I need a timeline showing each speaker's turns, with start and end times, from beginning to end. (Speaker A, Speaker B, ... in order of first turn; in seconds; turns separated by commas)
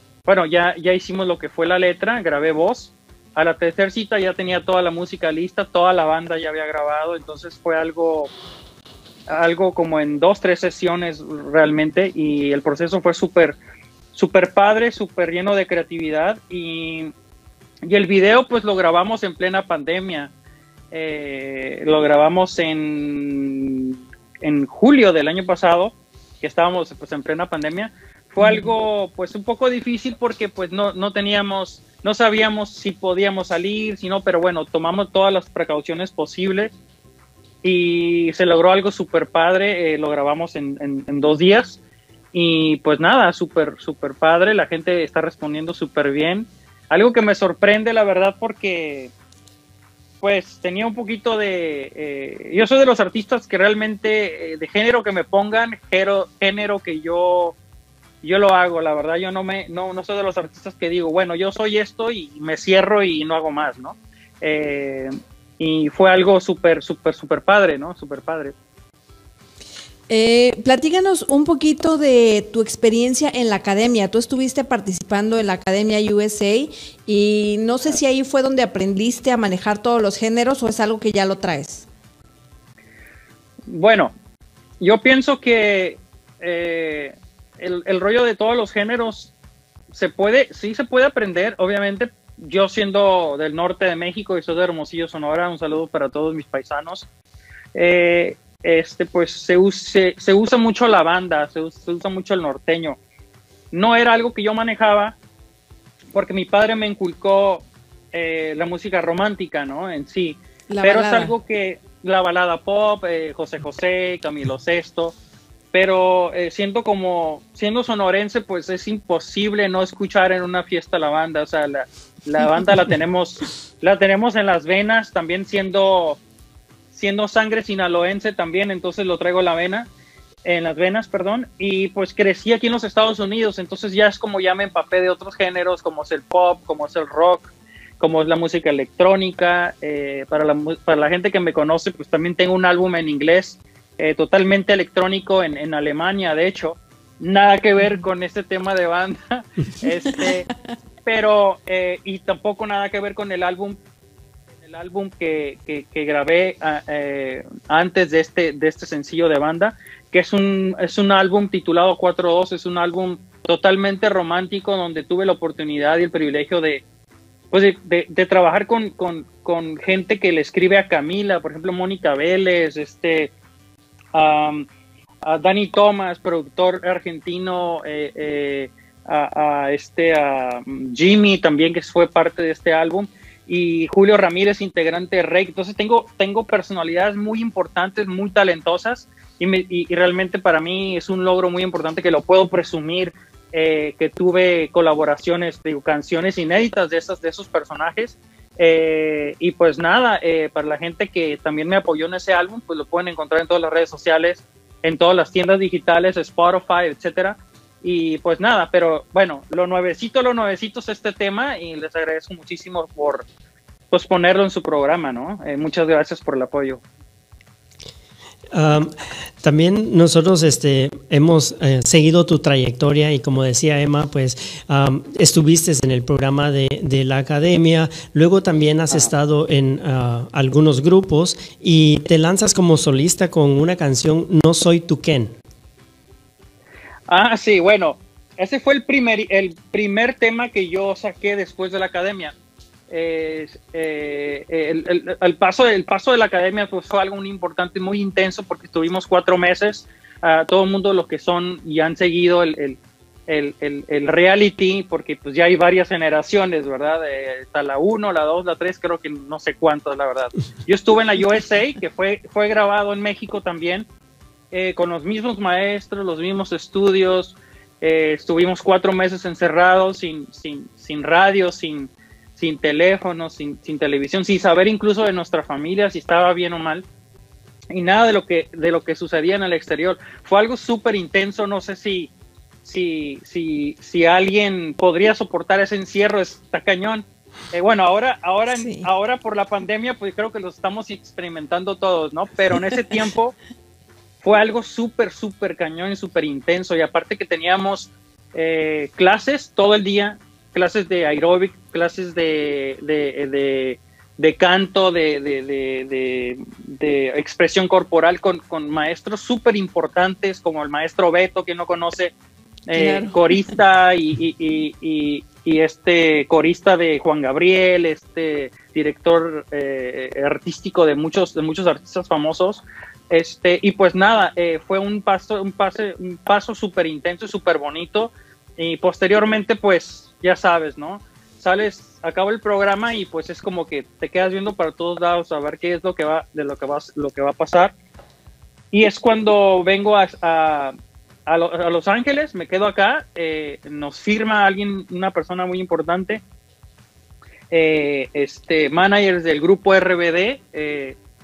Speaker A: 0.3-8.3, Speaker A: 9.3-13.6, Speaker A: 14.1-17.1, Speaker A: 17.9-20.3, Speaker A: 20.9-36.7, Speaker B: 28.4-28.7, Speaker A: 37.6-41.8, Speaker A: 42.3-49.1, Speaker A: 50.2-57.6, Speaker A: 58.2-68.5, Speaker B: 70.1-81.9, Speaker A: 83.7-84.1, Speaker A: 84.8-89.3, Speaker A: 89.9-97.1, Speaker A: 97.7-103.0, Speaker A: 103.7-105.2, Speaker A: 106.1-115.2, Speaker B: 110.7-111.3, Speaker A: 115.7-126.2, Speaker A: 126.9-129.9, Speaker A: 130.4-150.5, Speaker A: 151.1-153.8, Speaker A: 154.6-166.8, Speaker A: 167.5-173.3, Speaker A: 174.1-174.7, Speaker A: 175.2-213.3, Speaker A: 213.9-216.8, Speaker C: 218.5-235.4, Speaker A: 237.1-242.3, Speaker A: 242.9-263.9, Speaker A: 264.5-276.9, Speaker A: 277.7-282.1, Speaker A: 282.6-293.4, Speaker B: 288.5-288.9, Speaker A: 294.2-312.1, Speaker A: 312.7-337.7, Speaker B: 312.7-313.2, Speaker A: 338.7-340.8, Speaker A: 341.3-346.2, Speaker A: 347.5-351.0